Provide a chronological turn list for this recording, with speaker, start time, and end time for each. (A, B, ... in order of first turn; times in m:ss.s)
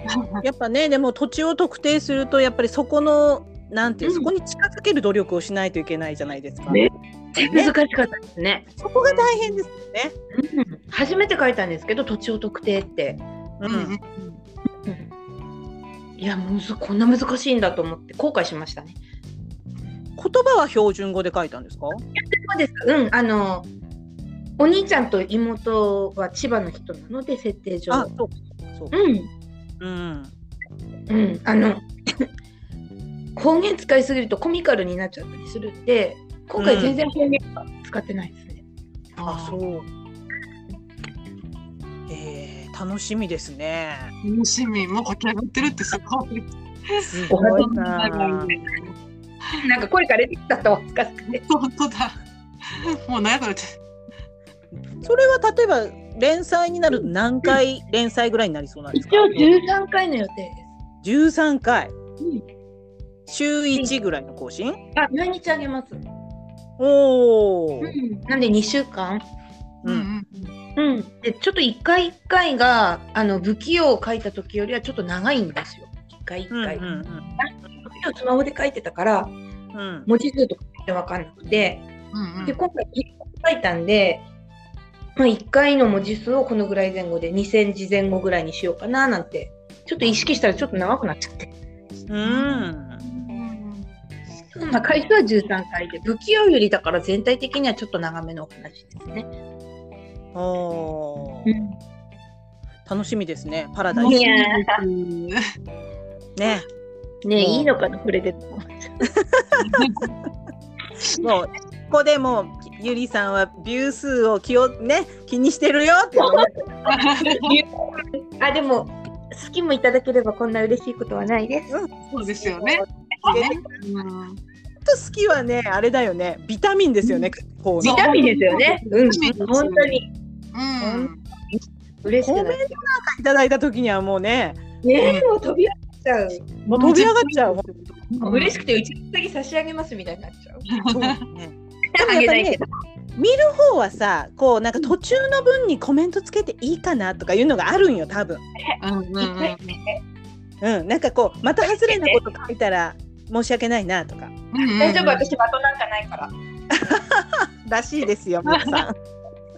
0:00.1-0:00.4 A
0:00.4-0:06.8 B
0:04.0-0:04.3 C
0:06.7-0:08.7 C
0:07.3-0:07.7 B
0:08.8-0:10.1 B
0:09.0-0:09.6 A
0:10.3-0:13.2 C
0:13.6-0:13.9 B
0:13.6-0:14.4 A
0:16.2-0:19.0 C
0:20.2-0:22.0 B
0:22.2-0:23.7 C
0:24.6-0:28.1 C
0:27.9-0:28.9 B
0:28.9-0:29.3 C
0:29.8-0:30.3 B
0:31.1-0:32.2 C
0:33.4-0:38.6 C
0:36.6-0:37.0 B
0:39.2-0:39.6 A
0:39.2-0:39.8 B
0:42.1-0:44.1 B
0:44.2-0:49.6 A
0:47.0-0:48.6 B
0:47.3-0:47.7 C
0:49.6-0:51.4 C
0:51.3-0:53.8 A
0:55.0-0:59.5 B
0:58.9-1:00.7 C
1:01.0-1:01.9 B
1:02.2-1:02.4 C
1:03.3-1:04.8 B
1:04.9-1:06.0 C
1:06.8-1:07.9 B
1:07.8-1:09.2 C
1:09.8-1:10.5 A
1:10.8-1:16.8 C
1:16.5-1:17.2 B
1:16.8-1:17.4 A
1:17.4-1:19.3 C
1:19.7-1:20.1 B
1:20.1-1:21.8 C
1:22.1-1:22.6 A
1:22.4-1:24.2 C
1:25.2-1:31.5 C
1:32.1-1:33.0 B
1:32.2-1:33.9 A
1:34.5-1:39.3 C
1:40.3-1:41.5 B
1:41.4-1:41.7 C
1:42.8-1:44.3 B
1:43.9-1:45.4 A
1:44.0-1:44.8 C
1:46.4-1:46.7 B
1:47.2-1:48.9 C
1:47.4-1:47.7 B
1:49.2-1:49.9 B
1:49.6-1:50.1 A
1:51.0-1:51.3 A
1:51.2-1:56.5 B
1:56.2-2:01.8 C
1:56.8-1:57.6 A
2:01.7-2:03.6 B
2:02.1-2:04.4 A
2:03.2-2:03.5 C
2:04.8-2:08.0 B
2:07.8-2:10.1 C
2:07.8-2:10.0 A
2:10.5-2:11.2 A
2:10.8-2:11.1 B
2:11.6-2:12.8 C
2:12.2-2:14.6 B
2:14.8-2:16.7 C
2:15.0-2:15.3 A
2:16.7-2:18.6 A
2:16.7-2:17.6 B
2:18.2-2:20.7 C
2:20.7-2:21.2 A
2:20.9-2:22.6 B
2:22.0-2:22.7 C
2:23.2-2:28.4 B
2:28.8-2:29.8 A
2:29.2-2:30.0 C
2:30.6-2:34.4 B
2:31.6-2:32.2 C
2:34.5-2:35.3 A
2:34.8-2:36.3 C
2:36.7-2:39.0 B
2:38.5-2:38.8 A